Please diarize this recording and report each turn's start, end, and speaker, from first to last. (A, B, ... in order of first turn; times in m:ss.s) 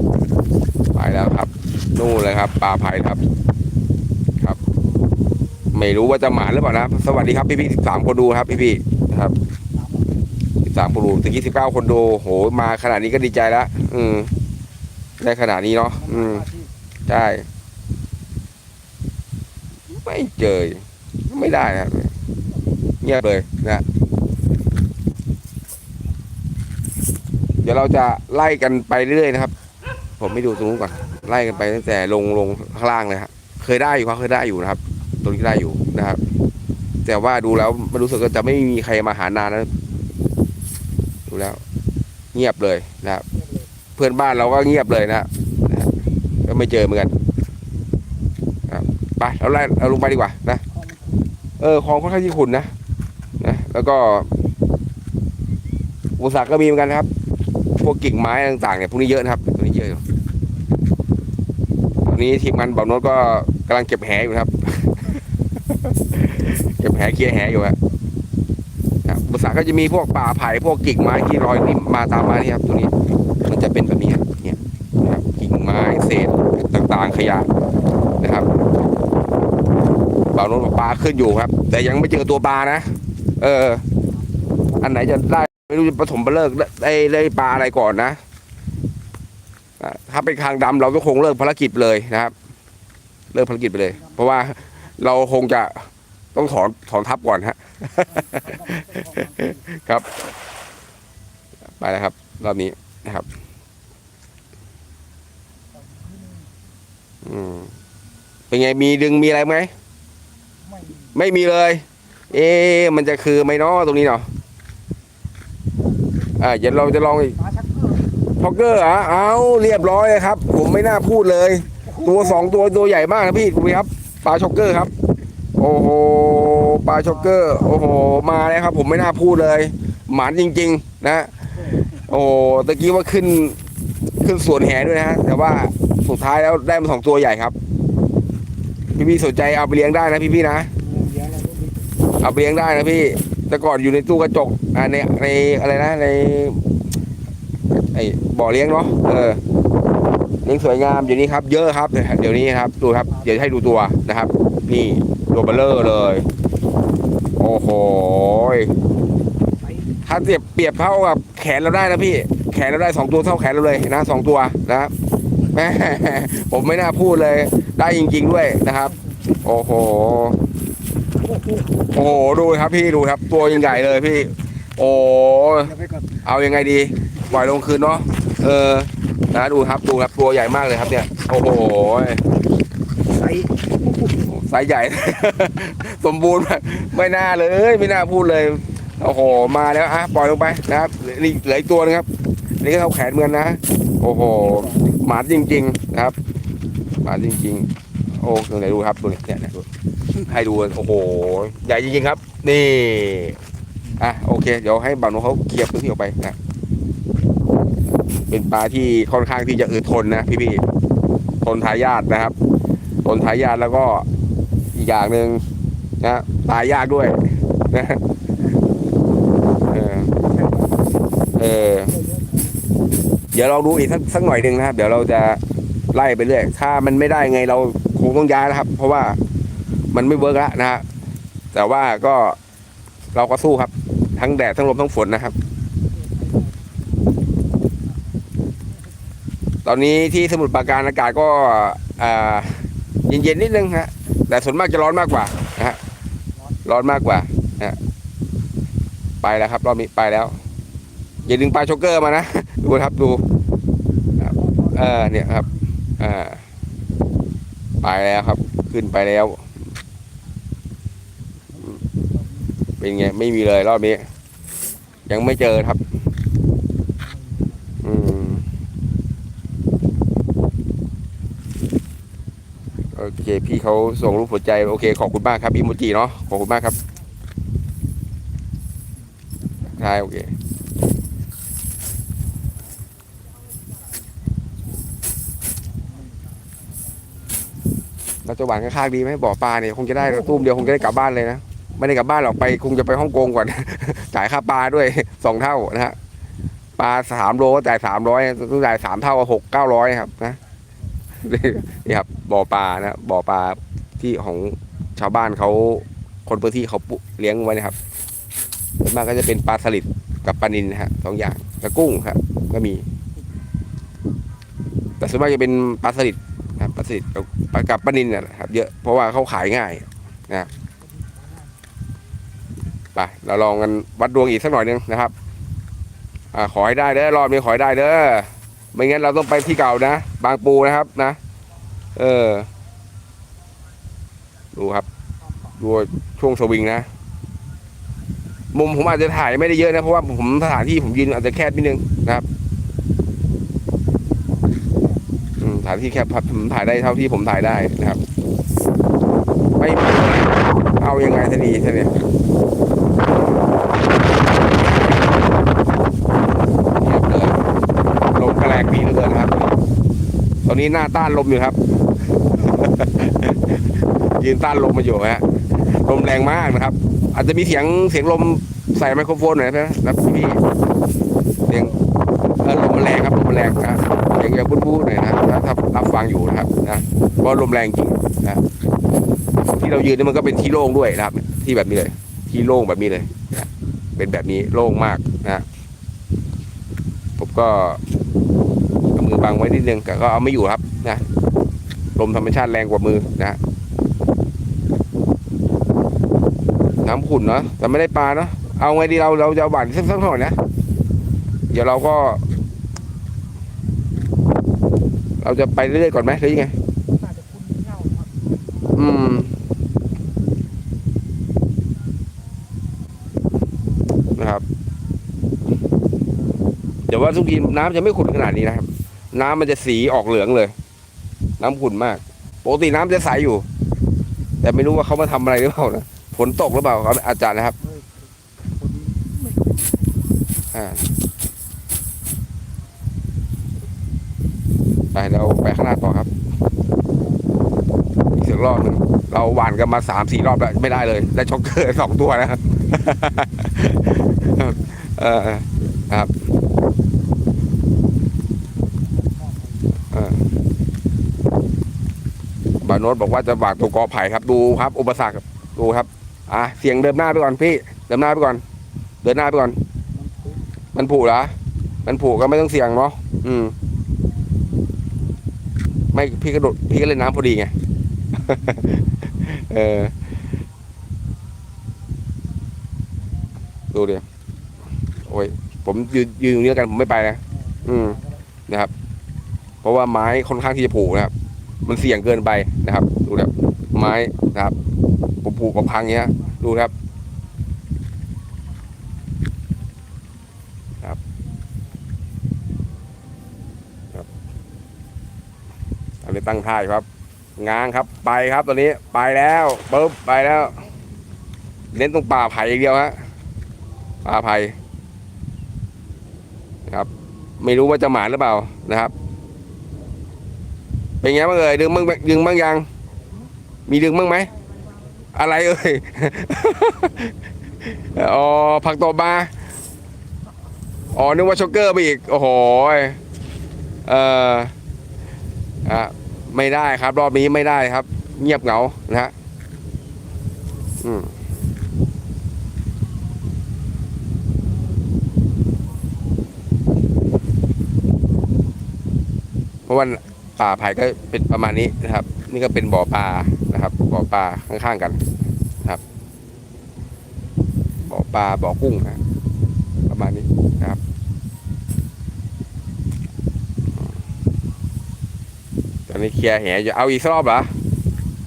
0:00.9-0:03.2 A
0:05.7-0:09.3 A
0:09.7-0:10.2 B
0:10.6-0:14.3 A
0:15.2-0:16.4 A
0:15.9-0:16.7 B
0:17.1-0:17.4 A
0:19.9-0:22.1 A
0:23.0-0:23.8 A
0:27.6-0:29.5 A
0:30.2-0:36.2 A
0:31.2-0:31.6 B
0:37.0-0:39.7 A
0:41.3-0:41.6 A
0:42.3-0:43.2 A
0:43.3-0:43.7 B
0:44.0-0:45.9 A
0:46.4-0:47.1 A
0:48.7-0:50.6 A
0:50.7-0:51.3 B
0:51.6-0:52.7 A
0:53.4-0:54.3 A
0:56.2-0:57.1 A
0:57.8-1:00.0 A
1:02.0-1:05.1 A
1:05.7-1:07.8 A
1:09.0-1:12.9 A
1:13.4-1:17.5 A
1:18.2-1:18.5 A
1:20.3-1:23.8 A
1:24.8-1:28.2 A
1:29.8-1:32.3 A
1:33.3-1:40.1 A
1:33.9-1:34.2 B
1:38.0-1:39.6 B
1:41.8-1:43.3 A
1:45.7-1:46.5 B
1:47.2-1:47.7 A
1:48.5-1:49.7 A
1:50.6-1:51.2 B
1:51.1-1:54.3 A
1:55.8-1:56.3 B
1:56.4-1:57.3 A
1:57.3-1:58.2 B
1:58.4-2:04.9 A
2:01.7-2:02.7 B
2:05.6-2:13.6 A
2:07.0-2:08.0 B
2:11.5-2:12.0 B
2:14.2-2:17.6 A
2:19.0-2:20.7 A
2:20.8-2:22.0 B
2:22.2-2:26.6 A
2:27.7-2:29.4 A
2:30.4-2:36.3 A
2:33.1-2:33.6 B
2:37.4-2:38.7 A
2:39.6-2:40.0 B
2:40.0-2:44.9 A
2:45.5-2:50.4 A
2:48.8-2:49.2 B
2:51.2-2:52.0 B
2:51.9-2:55.7 A
2:53.6-2:53.9 B
2:55.6-2:56.2 B
2:56.2-3:02.2 A
2:57.1-2:57.8 B
3:03.1-3:04.2 B
3:04.2-3:12.1 A
3:12.6-3:16.1 A
3:14.4-3:15.0 B
3:17.0-3:19.6 A
3:20.2-3:23.4 A
3:24.0-3:26.4 A
3:28.3-3:30.6 A
3:31.4-3:32.3 A
3:33.0-3:34.1 A
3:34.7-3:35.4 A
3:36.0-3:38.0 A
3:38.4-3:38.7 B
3:39.7-3:40.1 A
3:40.1-3:42.6 B
3:41.4-3:41.9 A
3:43.3-3:45.4 A
3:45.9-3:49.2 A
3:49.9-3:50.8 A
3:51.5-3:52.4 A
3:53.1-3:55.3 A
3:55.9-3:58.8 B
3:59.6-4:05.8 A
4:06.4-4:06.7 B
4:06.6-4:07.8 A
4:09.2-4:10.4 A
4:11.2-4:13.2 A
4:14.2-4:15.5 A
4:14.2-4:15.6 B
4:16.0-4:16.4 A
4:17.8-4:19.4 A
4:21.5-4:22.6 B
4:22.8-4:24.1 A
4:25.1-4:25.8 A
4:27.0-4:27.8 B
4:27.8-4:28.4 A
4:32.9-4:36.7 A
4:39.2-4:39.7 B
4:39.7-4:40.3 A
4:45.8-4:46.6 B
4:48.2-4:56.0 A
4:50.0-4:51.0 B
4:56.8-5:00.4 A
5:01.2-5:07.7 A
5:08.8-5:12.8 A
5:15.0-5:20.5 A
5:20.4-5:21.6 B
5:22.9-5:25.1 A
5:26.3-5:31.2 A
5:32.0-5:32.5 A
5:34.5-5:34.8 A
5:35.2-5:35.6 B
5:35.6-5:36.9 A
5:38.5-5:42.2 A
5:44.7-5:45.0 B
5:45.4-5:48.0 A
5:49.6-5:52.0 A
5:56.8-5:57.4 A
5:58.1-5:59.5 A
6:00.4-6:01.6 A
6:02.3-6:10.4 A
6:11.5-6:11.8 A
6:12.4-6:18.4 A
6:19.5-6:25.4 A
6:27.2-6:27.8 A
6:28.9-6:31.0 A
6:32.0-6:33.4 A
6:36.8-6:40.4 A
6:41.5-6:42.2 A
6:45.2-6:46.5 A
6:46.7-6:48.7 B
6:48.7-6:49.3 A
6:54.2-6:54.4 A
6:56.9-7:00.5 A
7:01.4-7:03.4 A
7:04.4-7:07.6 A
7:07.6-7:10.0 B
7:10.5-7:10.8 A
7:14.9-7:16.1 A
7:18.1-7:26.1 A
7:28.7-7:29.8 B
7:29.9-7:30.2 A
7:32.6-7:38.4 A
7:39.0-7:39.6 A
7:39.9-7:40.4 B
7:40.7-7:41.3 A
7:41.8-7:43.5 A
7:45.9-7:47.5 A
7:48.1-7:48.7 B
7:48.2-7:49.9 A
7:53.7-7:54.0 A
7:55.0-7:58.7 A
7:57.3-7:58.2 B
7:59.6-8:01.1 A
8:01.6-8:04.5 A
8:05.2-8:06.7 A
8:16.0-8:16.8 A
8:17.4-8:20.6 A
8:21.7-8:23.0 A
8:24.0-8:24.6 A
8:27.4-8:28.9 A
8:31.0-8:32.7 A
8:33.7-8:34.3 A
8:35.1-8:37.1 A
8:37.6-8:39.3 A
8:40.9-8:43.0 A
8:43.8-8:44.5 A
8:45.6-8:49.1 A
8:50.8-8:51.1 A
8:59.7-9:05.0 A
9:07.8-9:09.0 A
9:09.9-9:10.8 A
9:15.9-9:17.5 A